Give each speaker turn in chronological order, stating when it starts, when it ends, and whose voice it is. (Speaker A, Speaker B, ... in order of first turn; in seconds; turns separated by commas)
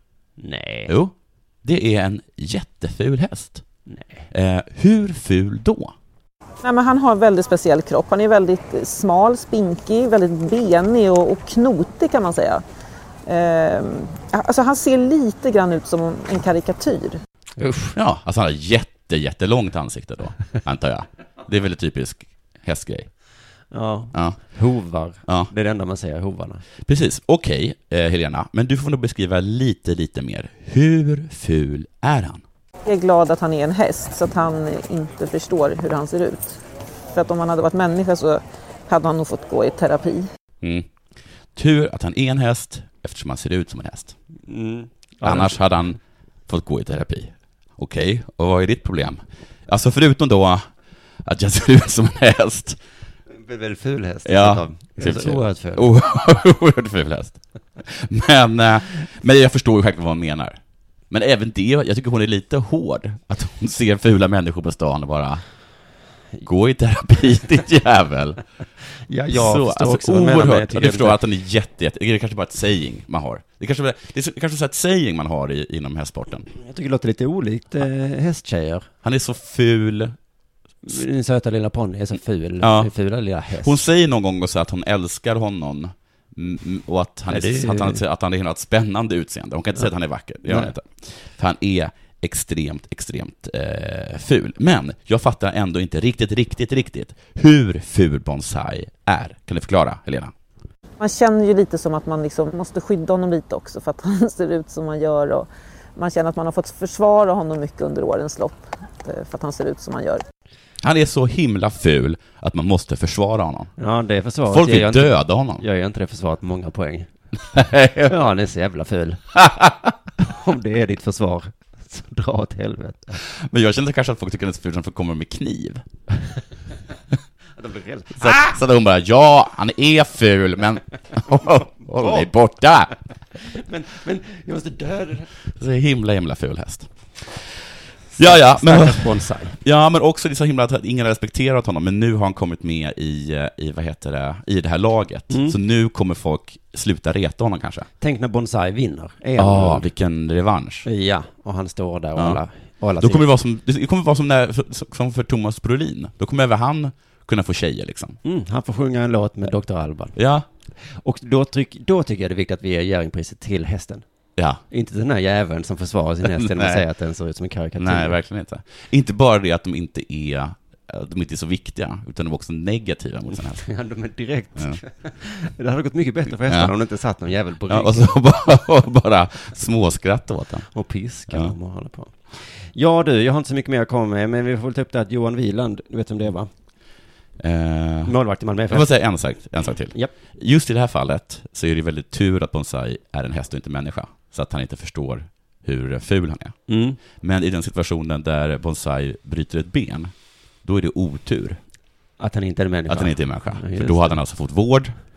Speaker A: 0.4-0.9, Speaker B: 0.9-3.6, Speaker A: 3.9-4.2, Speaker B: 4.3-5.9, Speaker C: 6.6-12.6, Speaker C: 13.2-17.2, Speaker A: 17.6-17.9, Speaker B: 17.9-23.1, Speaker A: 23.7-26.6, Speaker B: 24.1-24.4, Speaker B: 26.8-32.4, Speaker C: 32.9-36.6, Speaker C: 37.1-40.2, Speaker B: 40.6-40.9, Speaker B: 41.5-44.1, Speaker A: 44.5-45.6, Speaker B: 45.2-50.6, Speaker B: 51.2-52.8, Speaker A: 53.4-55.9, Speaker B: 54.2-60.6, Speaker B: 61.1-65.4, Speaker B: 66.4-68.4, Speaker A: 69.1-71.2, Speaker B: 69.3-76.5, Speaker A: 76.5-78.9, Speaker B: 79.0-80.2, Speaker A: 80.8-83.8, Speaker B: 82.6-82.9, Speaker B: 83.6-100.3, Speaker A: 87.3-88.0, Speaker A: 90.5-90.7, Speaker C: 101.0-110.2, Speaker B: 110.8-113.7, Speaker A: 113.8-117.1, Speaker B: 114.5-115.6, Speaker B: 117.5-118.1, Speaker A: 118.0-119.3, Speaker B: 119.3-119.7, Speaker A: 120.2-123.2, Speaker B: 123.2-125.8, Speaker A: 127.6-128.5, Speaker B: 128.2-132.9, Speaker A: 131.9-132.3, Speaker A: 133.4-135.3, Speaker B: 135.5-137.5, Speaker A: 138.1-139.6, Speaker B: 138.2-147.9, Speaker A: 145.3-145.6, Speaker A: 148.0-149.9, Speaker B: 149.4-150.8, Speaker A: 150.8-153.2, Speaker B: 152.2-152.4, Speaker B: 153.0-158.2, Speaker A: 158.2-160.2, Speaker B: 160.2-160.4, Speaker A: 160.9-164.0, Speaker B: 164.4-164.6, Speaker A: 164.7-168.2, Speaker B: 166.2-166.8, Speaker B: 167.8-173.7, Speaker A: 173.3-178.1, Speaker B: 176.5-176.7, Speaker B: 177.7-180.7, Speaker A: 180.7-186.5, Speaker B: 187.4-188.2, Speaker A: 188.0-188.9, Speaker B: 188.7-201.6, Speaker A: 196.7-197.0, Speaker A: 202.2-204.2, Speaker B: 202.9-204.9